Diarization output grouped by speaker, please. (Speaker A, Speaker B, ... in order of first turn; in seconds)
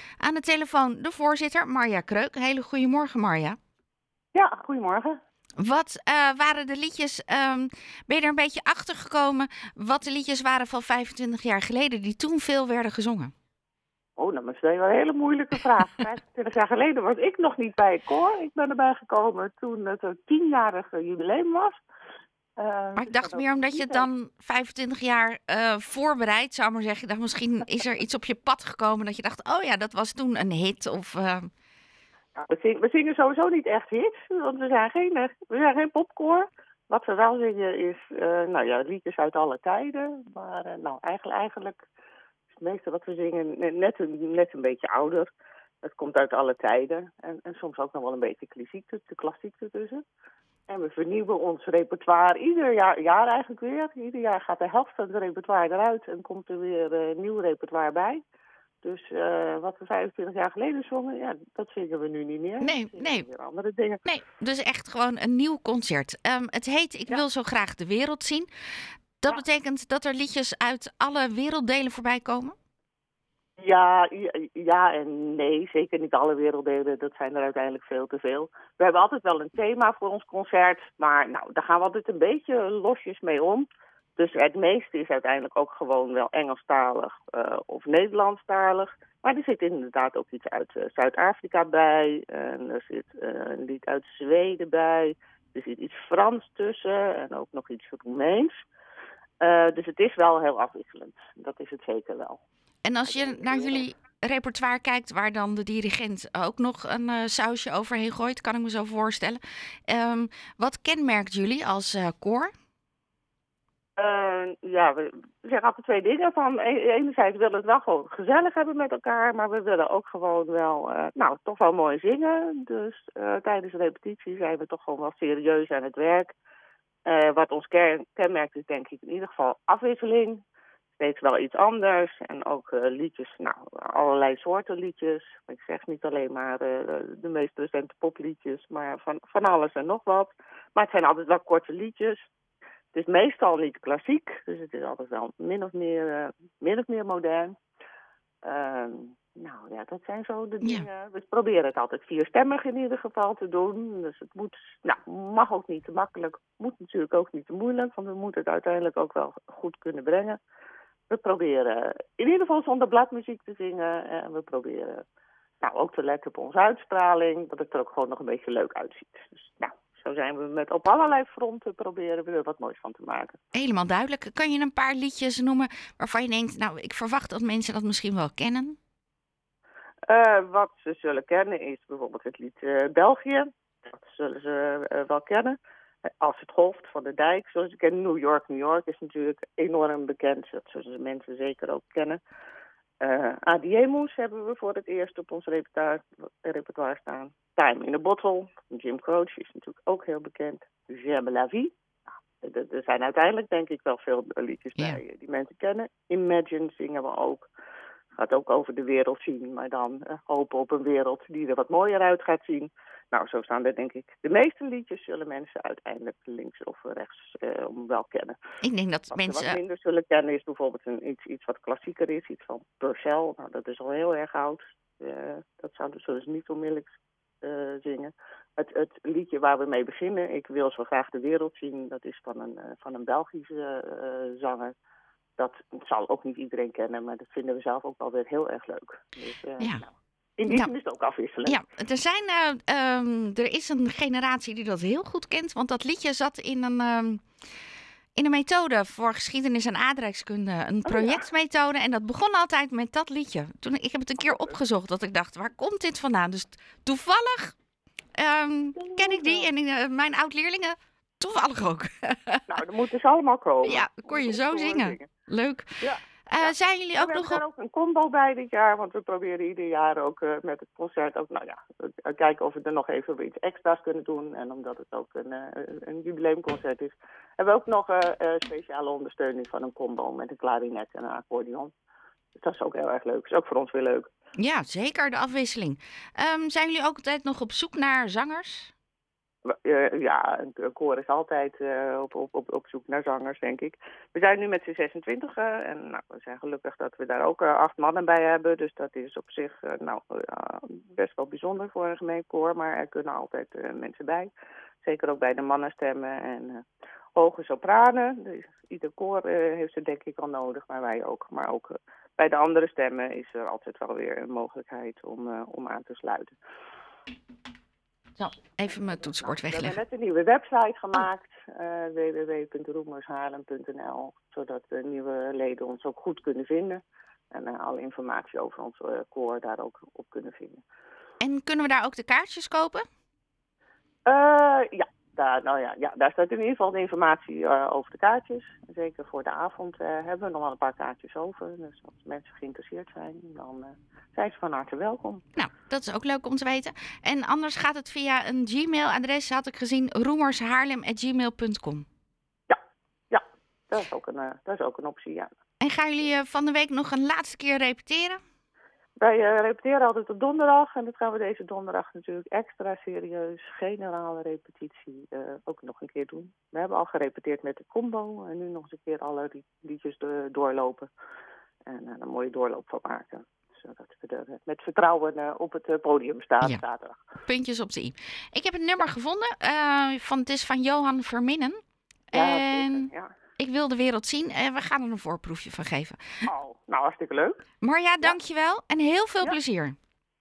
Speaker A: 0.2-3.6, 5.6-13.3, 23.0-31.5, 62.6-63.3, 64.0-68.5, 69.2-72.6, 102.8-112.5, 173.5-178.8, 218.6-219.6, 239.6-239.8, 241.5-247.2, 248.2-257.6, 258.2-262.5, 263.6-265.8, 266.3-267.4, 284.4-288.7, 318.2-319.8, 331.2-332.9, 345.4-351.9, 355.6-358.2, 377.3-381.6, 382.1-386.3, 387.6-389.8
Speaker B: 4.3-5.2, 14.2-21.8, 22.6-24.1, 32.4-41.8, 42.5-45.3, 45.8-50.0, 50.7-58.2, 58.8-64.0, 73.6-98.5, 99.4-102.4, 103.0-103.9, 114.0-126.3, 127.1-130.4, 130.9-142.3, 142.9-147.6, 148.4-160.4, 161.1-165.0, 165.6-173.4, 180.1-185.6, 186.2-192.2, 193.0-201.7, 202.4-207.5, 208.2-218.4, 219.1-226.9, 227.4-234.7, 235.4-241.6, 250.9-251.2, 254.2-254.5, 258.8-259.5, 262.5-265.1, 265.8-281.7, 282.4-284.1, 289.5-304.3, 304.8-306.6, 307.1-316.4, 318.8-330.6, 334.1-345.2, 352.5-355.3, 359.0-370.9, 371.7-377.0, 382.1-383.1, 386.3-387.4